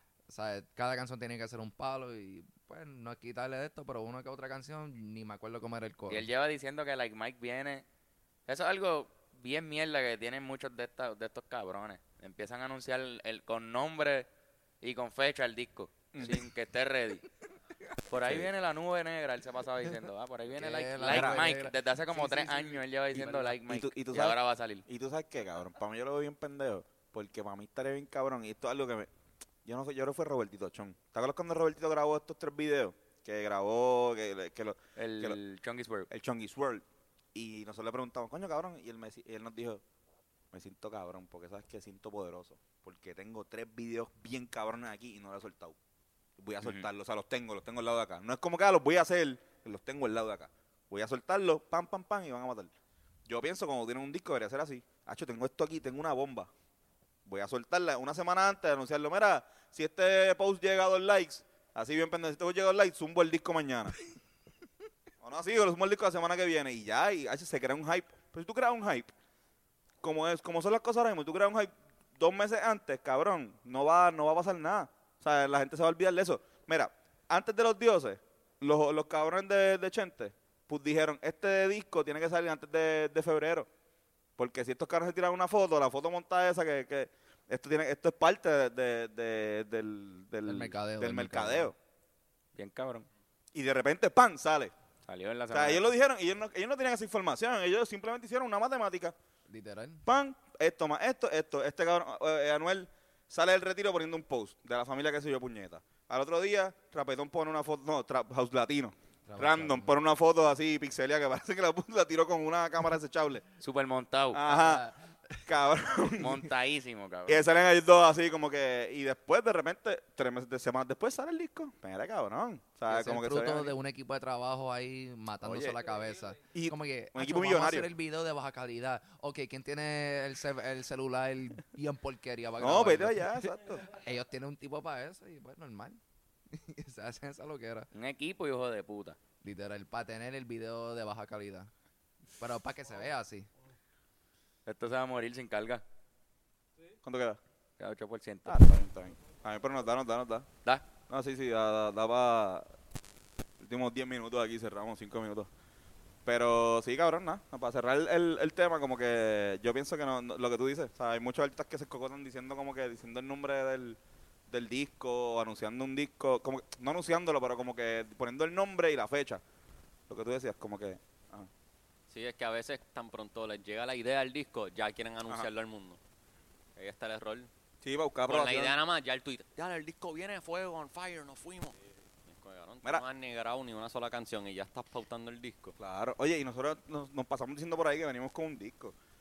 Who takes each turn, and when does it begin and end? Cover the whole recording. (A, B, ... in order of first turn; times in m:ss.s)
0:00.3-0:06.3 A
0:06.1-0:07.8 B
0:08.4-0:14.3 B
0:14.8-0:17.2 B
0:16.1-0:16.5 C
0:18.1-0:24.8 B
0:18.1-0:18.5 C
0:20.5-0:23.5 A
0:21.0-0:21.5 C
0:23.1-0:29.1 C
0:29.6-0:35.4 C
0:35.0-0:36.1 B
0:36.1-0:39.8 C
0:40.5-0:45.8 C
0:46.4-0:52.7 C
0:53.2-0:56.5 C
0:57.2-1:04.0 C
1:05.2-1:09.1 C
1:10.0-1:23.7 C
1:24.4-1:31.8 C
1:30.4-1:31.7 A
1:32.5-1:33.1 B
1:33.5-1:34.7 C
1:35.0-1:35.8 B
1:35.5-1:39.1 C
1:39.5-1:40.0 A
1:40.0-1:53.4 C
1:49.3-1:49.9 A
1:53.6-1:54.4 B
1:54.3-1:54.9 C
1:54.4-1:55.4 A
1:55.4-1:56.5 C
1:56.2-1:57.4 B
1:57.3-2:03.8 C
2:02.9-2:17.9 A
2:05.4-2:05.8 C
2:06.5-2:07.9 C
2:12.6-2:13.9 C
2:17.9-2:19.2 B
2:19.4-2:21.7 A
2:22.4-2:23.5 A
2:24.6-2:25.8 B
2:27.0-2:27.4 C
2:27.8-2:28.7 B
2:28.4-2:30.5 C
2:31.1-2:32.7 C
2:33.6-2:35.5 C
2:36.2-2:44.0 C
2:44.5-2:49.4 C
2:50.1-2:51.5 C
2:52.1-2:56.0 D
2:56.8-2:57.5 D
2:57.8-2:58.8 C
2:58.3-3:05.8 D
3:05.8-3:08.9 C